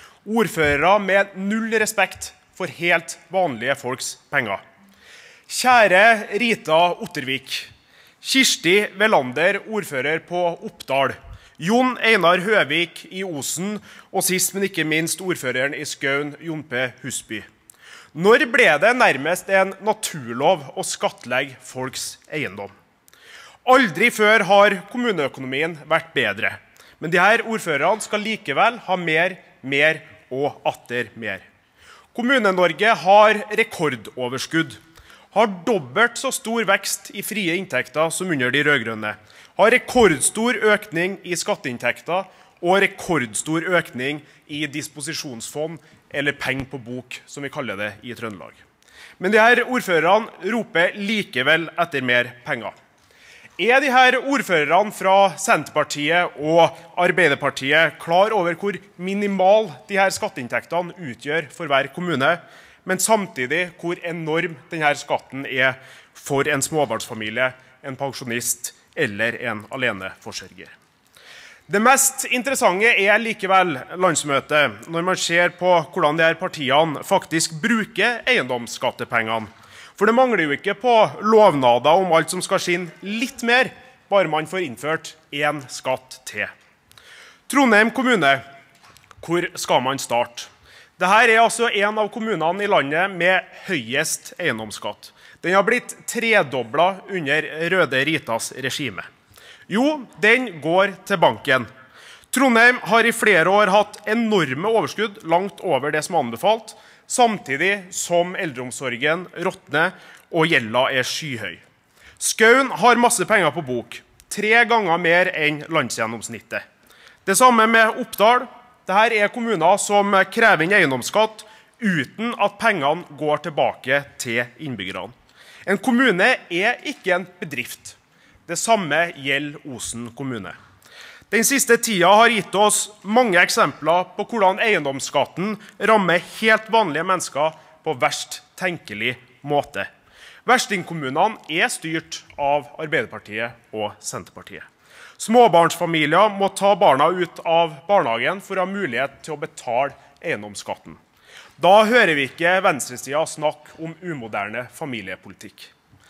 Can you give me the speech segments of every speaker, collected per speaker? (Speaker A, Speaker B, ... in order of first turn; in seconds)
Speaker A: 0.2-4.6, 5.5-7.7, 8.2-17.5, 18.1-22.7, 23.6-31.5, 32.1-34.8, 35.3-48.6, 49.2-52.7, 53.6-70.8, 71.7-86.5, 87.5-88.4, 89.2-99.1, 99.7-101.7, 102.3-111.6, 112.2-116.6, 117.2-125.1, 125.7-130.6, 131.3-139.9, 140.5-144.7, 145.2-151.0, 151.6-155.7